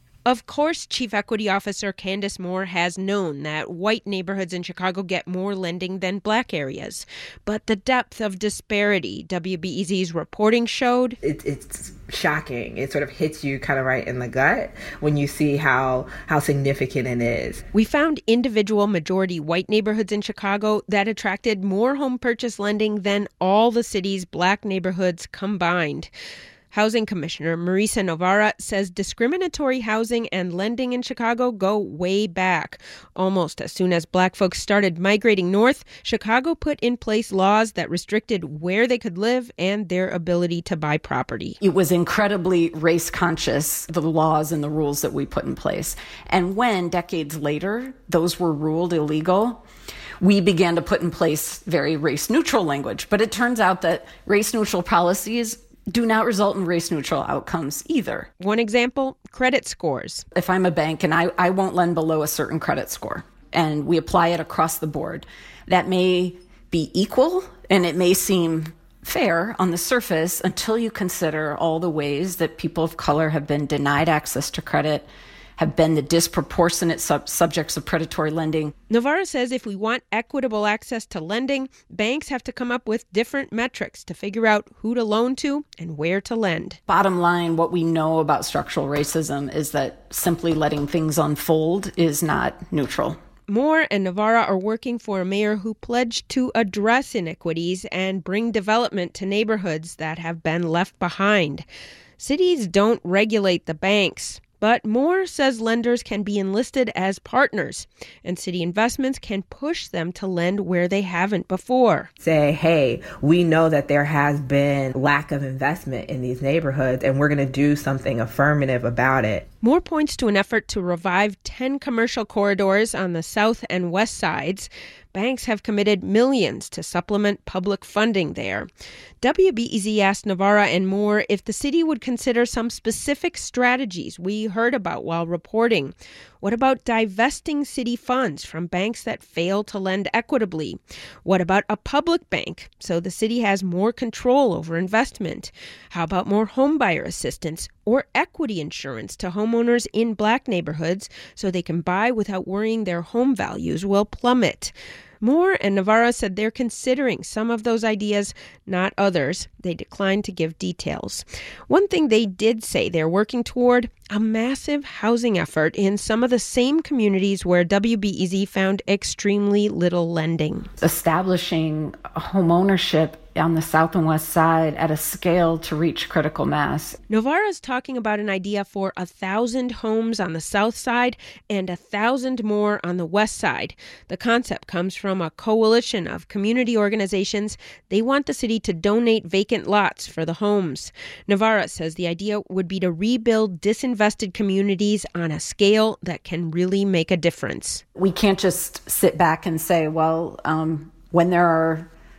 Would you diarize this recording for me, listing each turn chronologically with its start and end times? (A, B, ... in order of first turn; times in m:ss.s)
0:00.2-0:11.2 A
0:11.2-0:17.6 B
0:17.7-0:26.1 A
0:26.7-0:41.6 A
0:41.6-0:49.6 C
0:50.2-0:58.3 C
0:58.4-1:00.2 A
1:00.3-1:18.7 C
1:18.9-1:26.8 A
1:26.9-1:33.2 C
1:33.5-1:41.6 A
1:42.2-1:52.1 A
1:52.2-1:59.4 B
1:59.6-2:08.7 A
2:09.2-2:50.7 A
2:50.8-2:57.0 C
2:57.1-3:17.8 A
3:17.9-3:21.9 C